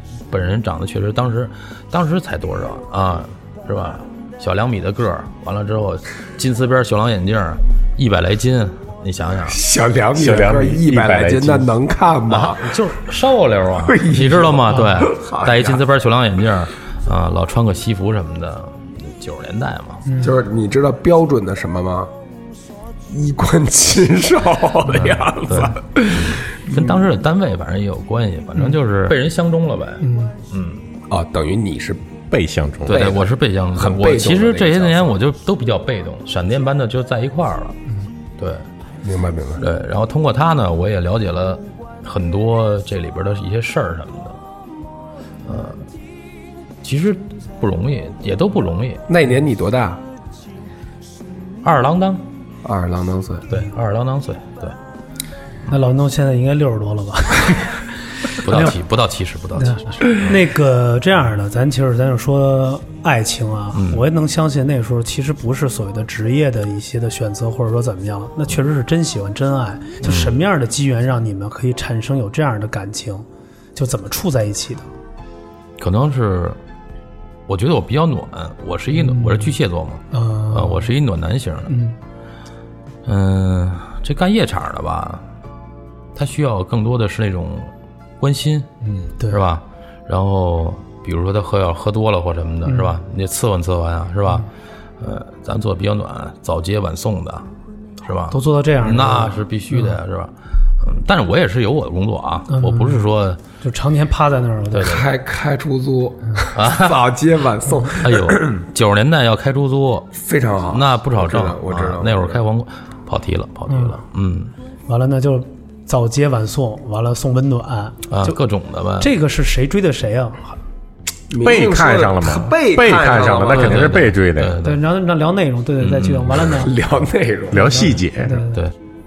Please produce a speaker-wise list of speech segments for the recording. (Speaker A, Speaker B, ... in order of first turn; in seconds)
Speaker A: 0.3-9.6, 12.3-20.0, 24.9-30.8, 32.9-37.8, 38.4-38.6, 39.6-44.4, 45.5-45.9, 46.8-49.0, 51.6-52.2, 53.5-54.8, 58.4-60.4, 63.7-64.0, 70.0-70.3, 75.8-76.6, 77.5-81.7, 83.0-85.2, 86.1-88.7, 89.3-94.5, 95.0-97.5, 98.0-103.4, 104.7-105.0, 106.5-107.1, 108.0-110.1, 110.7-114.5, 118.1-119.1, 123.5-124.8, 125.8-126.5, 128.4-128.7
Speaker B: 9.4-12.8, 13.8-15.8, 20.2-22.1, 23.1-27.1, 31.1-32.2, 32.9-35.2, 39.0-39.6, 49.1-50.0, 52.6-53.5, 104.8-108.6, 110.1-112.4, 121.3-123.9, 126.5-127.7
Speaker C: 10.1-11.7, 32.3-33.1, 121.4-124.6, 127.5-128.4
Speaker D: 20.1-20.3, 30.0-30.3, 55.7-58.8, 59.6-74.9, 78.9-79.5, 80.1-80.9, 81.7-82.0, 88.8-89.4, 92.7-92.9, 98.3-100.0, 102.5-103.1, 103.6-104.9, 113.7-114.0, 114.9-118.4, 119.0-120.5, 124.6-126.7, 127.5-128.6